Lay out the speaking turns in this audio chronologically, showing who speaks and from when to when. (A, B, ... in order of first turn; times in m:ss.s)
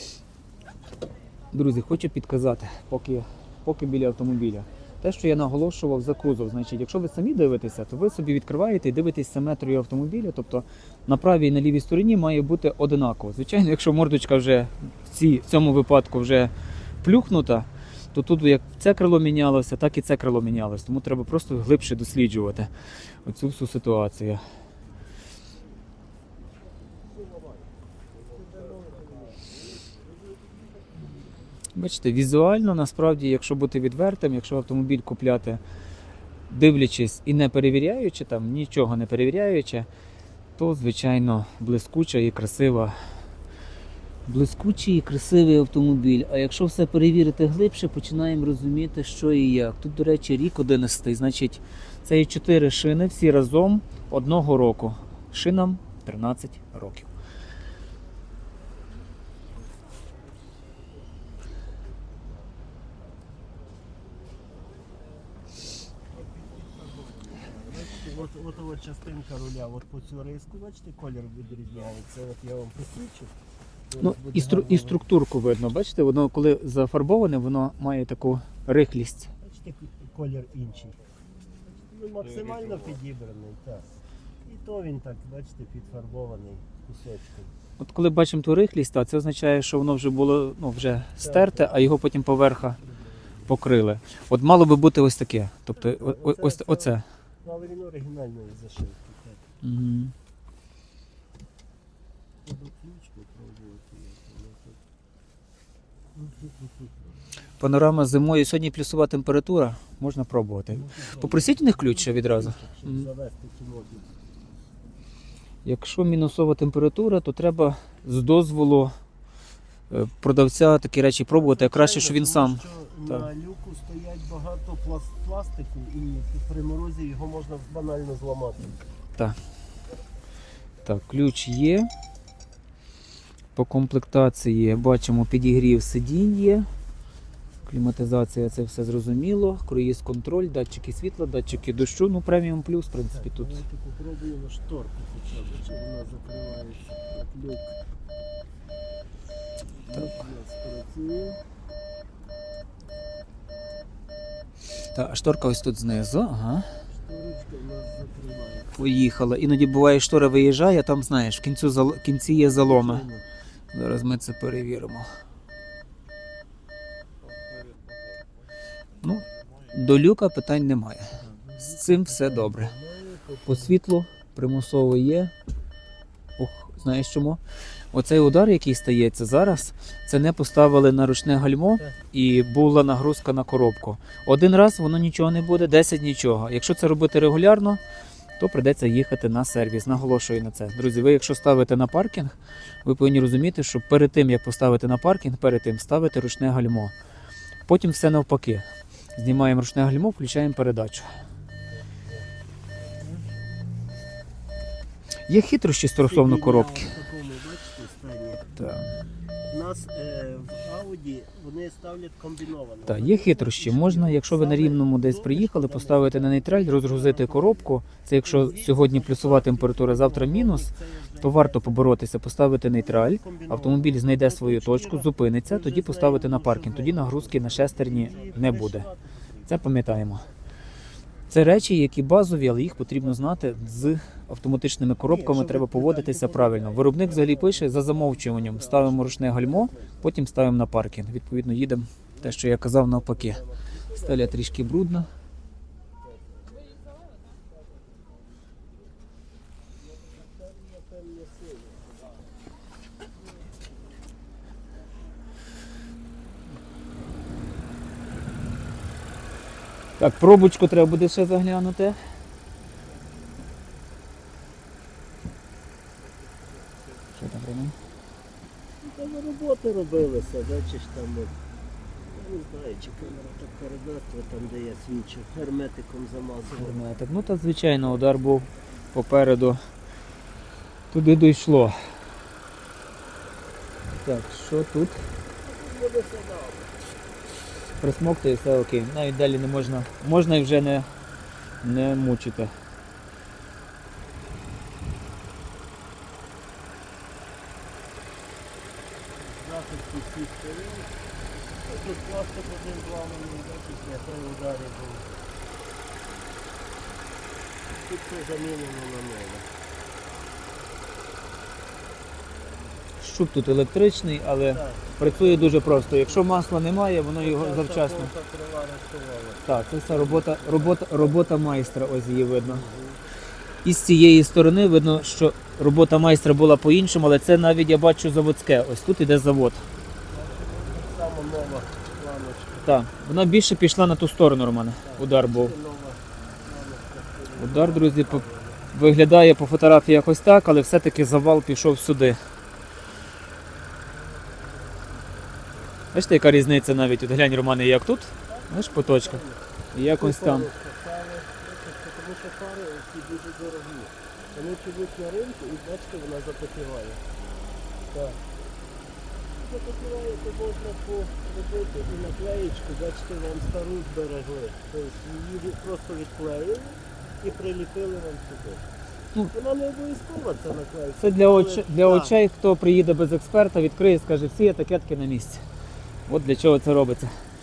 0:01.5-0:22.7 A
0:23.2-0:24.4 A
0:27.0-0:30.1 B
0:31.7-0:35.6 A
0:36.5-0:39.9 A
0:40.6-0:43.0 A
0:44.3-0:57.1 A
1:06.1-1:13.3 B
1:13.9-1:15.1 B
1:14.0-1:19.3 A
1:19.4-1:21.0 B
1:21.7-1:23.9 B
1:24.4-1:27.5 B
1:27.8-1:32.8 A
1:31.2-1:31.8 B
1:32.8-1:33.5 B
1:33.4-1:37.0 A
1:35.8-1:39.4 B
1:39.6-1:40.1 A
1:42.4-1:44.8 B
1:46.1-1:47.1 B
1:47.6-1:53.1 A
1:50.7-1:54.2 B
1:55.6-1:58.9 A
1:59.9-2:03.2 A
2:01.3-2:08.8 B
2:10.8-2:11.9 A
2:13.5-2:16.7 A
2:17.7-2:23.6 A
2:23.1-2:27.8 B
2:29.8-2:31.4 B
2:34.9-2:36.7 A
2:36.9-2:38.8 B
2:38.7-2:43.1 A
2:42.4-2:43.2 B
2:43.7-2:45.1 A
2:49.0-2:52.7 A
2:51.2-2:53.8 B
2:53.4-2:55.3 A
2:56.4-2:57.4 A
2:57.9-3:07.8 A
3:08.4-3:16.9 A
3:17.7-3:21.1 A
3:21.9-3:22.2 B
3:22.8-3:23.2 B
3:25.3-3:26.9 A
3:26.0-3:28.4 B
3:28.6-3:28.8 A
3:29.5-3:37.7 B
3:32.8-3:48.9 A
3:38.2-3:41.9 B
3:42.7-3:50.3 B
3:49.4-3:50.2 A
3:51.3-4:05.1 A
3:53.0-3:53.5 B
3:55.0-4:00.0 B
4:02.2-4:04.6 B
4:06.0-4:06.8 B
4:10.1-4:12.1 B
4:20.0-4:22.0 A
4:27.1-4:27.7 A
4:28.8-4:31.4 B
4:32.1-4:36.9 B
4:36.5-4:39.6 A
4:40.9-4:41.8 A
4:44.0-4:45.0 A
4:45.4-4:46.9 B
4:47.8-4:50.9 A
4:51.6-4:52.5 A
4:59.1-5:00.9 B
5:01.6-5:05.1 B
5:07.7-5:09.5 B
5:13.0-5:18.1 A
5:14.4-5:16.5 B
5:17.2-5:21.7 B
5:19.4-5:22.7 A
5:22.4-5:23.0 B
5:23.6-5:29.6 A
5:30.1-5:32.8 B
5:32.6-5:35.5 A
5:34.8-5:38.7 B
5:37.4-5:42.2 A
5:45.9-5:50.5 A
5:48.2-5:49.4 B
5:50.0-5:57.0 B
5:57.9-5:58.2 B
5:59.4-6:08.6 B
6:09.3-6:12.2 B
6:11.0-6:15.4 A
6:16.1-6:17.2 A